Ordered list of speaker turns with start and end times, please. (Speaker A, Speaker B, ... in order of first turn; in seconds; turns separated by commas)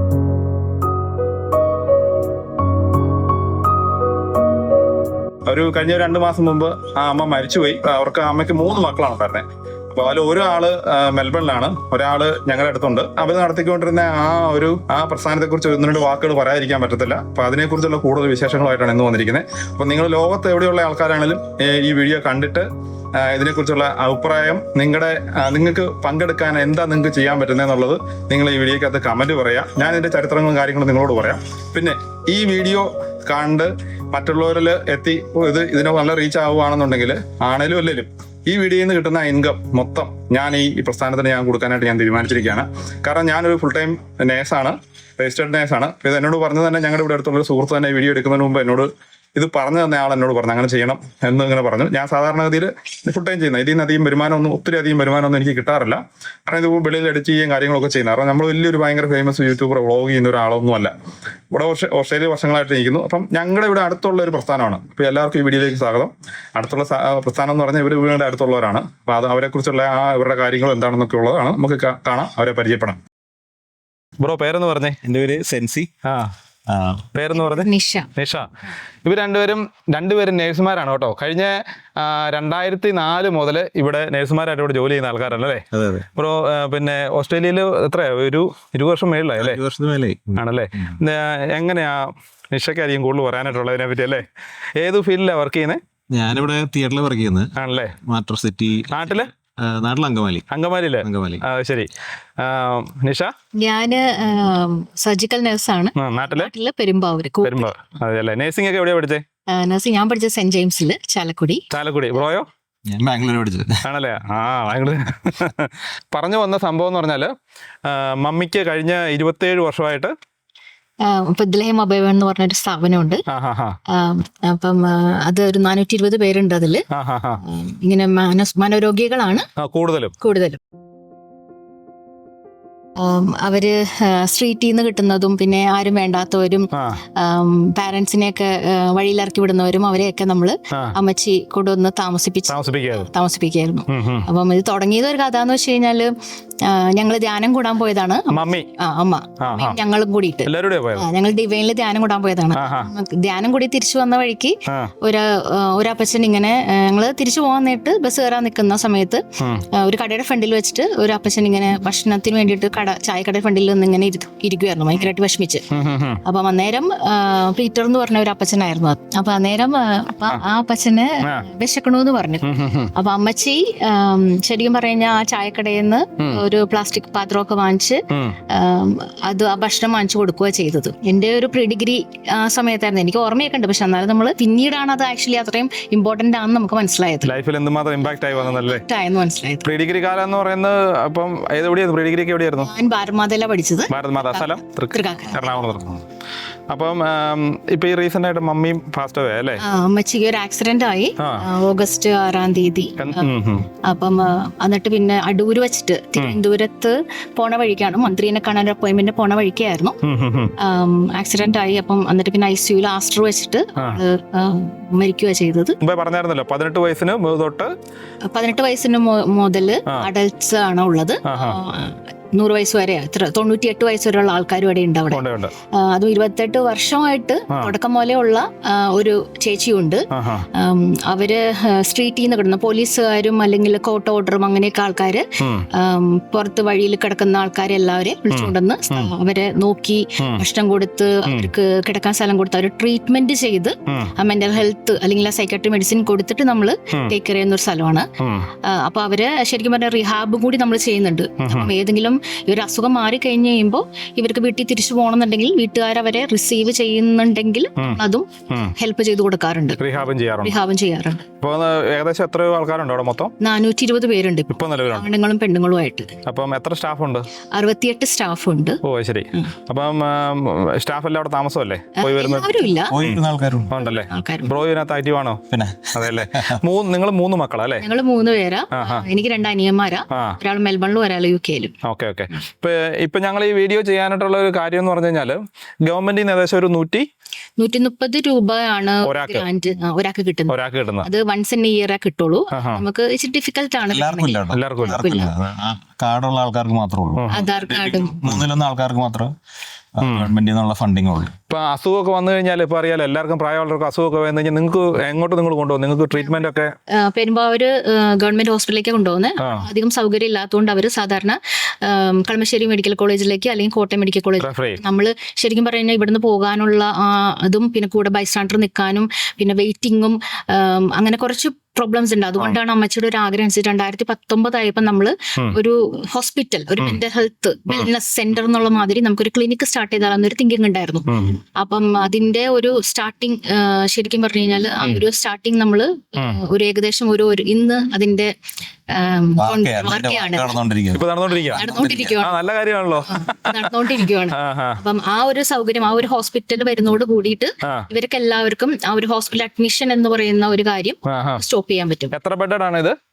Speaker A: 5.5-60.9, Speaker A: 61.5-73.0, Speaker A: 74.2-75.0, Speaker B: 75.0-75.9, Speaker A: 76.0-76.3, Speaker B: 76.7-77.0, Speaker A: 77.1-78.5, Speaker C: 77.3-78.1, Speaker A: 79.0-89.6, Speaker B: 85.7-86.1, Speaker B: 89.4-91.0, Speaker A: 90.4-94.3, Speaker A: 94.8-95.8, Speaker B: 96.1-100.5, Speaker A: 97.6-98.0, Speaker A: 98.9-99.3, Speaker A: 100.5-103.3, Speaker B: 101.0-101.4, Speaker C: 103.6-107.7, Speaker A: 106.0-106.5, Speaker A: 107.4-109.2, Speaker C: 109.5-111.6, Speaker A: 111.7-112.5, Speaker B: 112.8-113.8, Speaker A: 113.8-117.3, Speaker A: 117.8-120.1, Speaker C: 121.0-123.2, Speaker A: 123.3-123.8, Speaker C: 123.9-126.8, Speaker A: 126.9-127.4, Speaker C: 127.4-129.4, Speaker A: 129.6-130.1, Speaker C: 130.2-130.6, Speaker C: 133.0-146.1, Speaker A: 136.7-137.0, Speaker A: 140.7-141.0, Speaker A: 142.5-143.1, Speaker A: 143.9-144.3, Speaker C: 146.6-165.7, Speaker A: 148.3-148.7, Speaker A: 149.4-149.8, Speaker A: 150.4-151.1, Speaker A: 152.5-152.9, Speaker A: 154.7-154.9, Speaker A: 159.4-159.7, Speaker A: 165.7-166.2, Speaker C: 166.2-187.3, Speaker A: 172.4-172.9, Speaker A: 178.1-178.3, Speaker A: 187.2-188.8, Speaker C: 188.0-189.7, Speaker A: 189.6-192.7, Speaker C: 192.6-195.6, Speaker A: 193.9-196.0, Speaker A: 196.7-199.6, Speaker C: 199.6-203.3, Speaker A: 201.2-201.4, Speaker A: 203.0-203.7, Speaker C: 203.8-210.0, Speaker A: 210.0-210.5, Speaker C: 210.6-215.8, Speaker A: 215.8-217.7, Speaker C: 218.2-248.1, Speaker A: 221.2-221.6, Speaker A: 225.1-225.5, Speaker A: 230.1-230.5, Speaker A: 235.4-235.7, Speaker A: 238.3-239.1, Speaker A: 243.9-244.1, Speaker A: 248.2-248.5, Speaker C: 248.6-261.2, Speaker A: 251.4-251.7, Speaker A: 257.8-258.7, Speaker A: 259.8-260.6, Speaker A: 261.4-263.3, Speaker C: 263.4-266.1, Speaker A: 264.5-265.1, Speaker A: 266.2-267.3, Speaker C: 267.5-268.8, Speaker A: 268.8-273.2, Speaker C: 271.9-272.9, Speaker B: 272.9-273.7, Speaker A: 273.7-275.4, Speaker C: 273.9-274.5, Speaker B: 275.5-276.6, Speaker A: 275.9-277.8, Speaker C: 277.8-281.7, Speaker A: 278.7-279.0, Speaker A: 280.1-280.4, Speaker A: 281.8-287.1, Speaker C: 287.6-295.3, Speaker A: 289.0-289.4, Speaker A: 290.5-291.1, Speaker A: 292.5-292.8, Speaker B: 293.9-299.3, Speaker A: 294.5-295.0, Speaker A: 297.1-297.5, Speaker C: 297.3-298.4, Speaker B: 299.9-301.3, Speaker A: 300.0-300.3, Speaker A: 301.5-306.7, Speaker C: 306.9-338.3, Speaker A: 309.4-309.6, Speaker A: 314.4-314.8, Speaker A: 331.1-331.4, Speaker C: 338.9-340.6, Speaker B: 339.4-342.2, Speaker A: 340.9-341.6, Speaker C: 341.5-342.4, Speaker A: 342.2-344.8, Speaker C: 343.1-352.1, Speaker A: 351.1-351.4, Speaker A: 352.1-352.9